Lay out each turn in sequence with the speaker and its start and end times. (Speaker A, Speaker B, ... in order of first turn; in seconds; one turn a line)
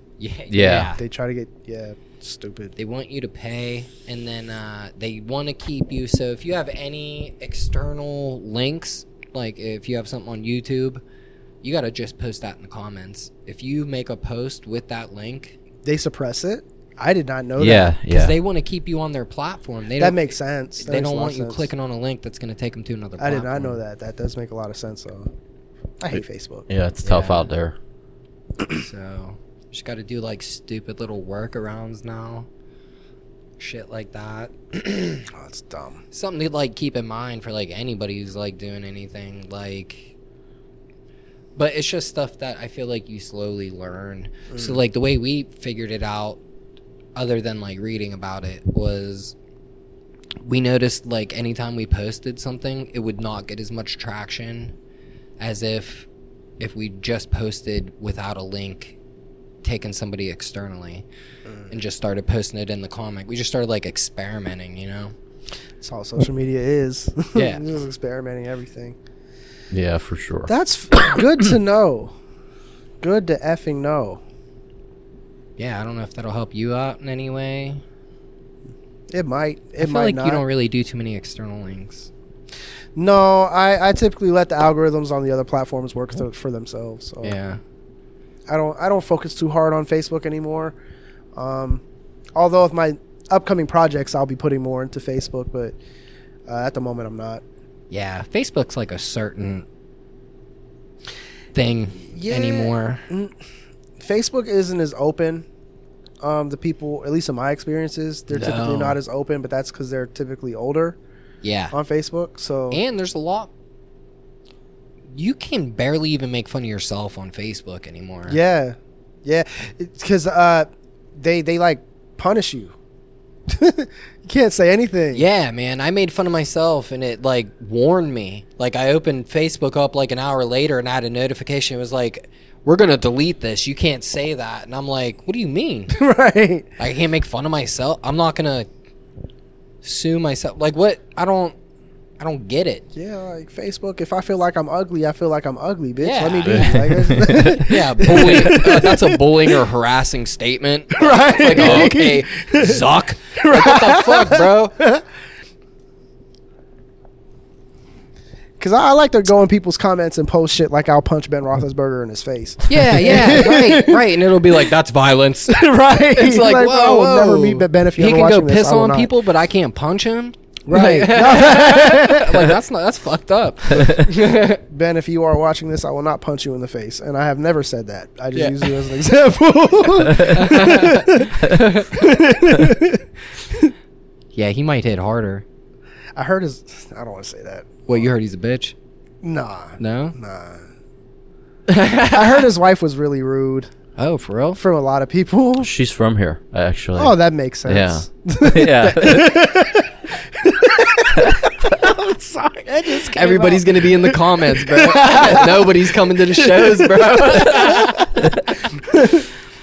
Speaker A: 0.2-1.0
Speaker B: 0.5-0.9
Speaker C: 0.9-2.8
Speaker A: 2.8-11.0
Speaker A: 11.6-15.6
Speaker C: 15.8-18.0
Speaker B: 17.6-18.4
Speaker A: 18.1-23.8
Speaker C: 20.0-21.7
Speaker C: 23.2-25.3
Speaker C: 26.0-26.7
Speaker B: 26.7-27.8
Speaker A: 27.0-27.5
Speaker A: 28.7-32.5
Speaker A: 33.6-35.3
Speaker C: 35.3-36.0
Speaker A: 36.1-40.1
Speaker A: 41.6-46.4
Speaker C: 44.5-44.8
Speaker A: 47.1-49.4
Speaker A: 50.4-54.7
Speaker A: 55.4-56.1
Speaker A: 56.6-59.0
Speaker A: 59.6-61.0
Speaker C: 61.5-61.7
Speaker A: 61.7-65.2
Speaker C: 65.8-69.0
Speaker A: 67.3-67.7
Speaker B: 69.7-70.5
Speaker C: 70.5-72.1
Speaker C: 73.0-74.2
Speaker A: 75.6-77.8
Speaker C: 79.1-80.4
Speaker A: 79.8-82.1
Speaker C: 83.0-87.4
Speaker A: 87.2-87.6
Speaker C: 88.5-90.8
Speaker C: 91.3-91.8
Speaker C: 92.4-95.8
Speaker C: 96.5-97.4
Speaker A: 97.9-99.7
Speaker A: 101.5-103.1
Speaker C: 102.0-103.3
Speaker C: 104.0-105.5
Speaker C: 106.2-111.0
Speaker A: 108.3-109.0
Speaker A: 111.4-111.8
Speaker C: 111.7-112.8
Speaker A: 112.7-113.5
Speaker A: 115.1-118.4
Speaker C: 118.3-122.8
Speaker C: 123.5-125.2
Speaker A: 125.1-135.9
Speaker C: 135.9-136.7
Speaker A: 136.8-138.7
Speaker A: 139.8-141.6
Speaker A: 142.2-142.8
Speaker C: 142.9-149.4
Speaker A: 146.0-154.8
Speaker B: 146.4-148.6
Speaker C: 150.9-152.8
Speaker B: 151.6-151.9
Speaker C: 153.4-155.1
Speaker C: 158.6-164.1
Speaker A: 162.7-174.6
Speaker C: 165.5-169.1
Speaker C: 170.7-172.6
Speaker C: 174.7-183.7
Speaker A: 178.3-178.8
Speaker A: 180.3-182.0
Speaker A: 184.3-185.4
Speaker C: 186.2-188.1
Speaker A: 187.9-188.8
Speaker C: 189.2-190.7
Speaker A: 189.8-190.2
Speaker A: 191.7-192.5
Speaker C: 192.1-193.7
Speaker A: 194.0-194.6
Speaker C: 194.6-195.7
Speaker B: 195.6-199.5
Speaker C: 197.0-209.3
Speaker A: 203.1-208.2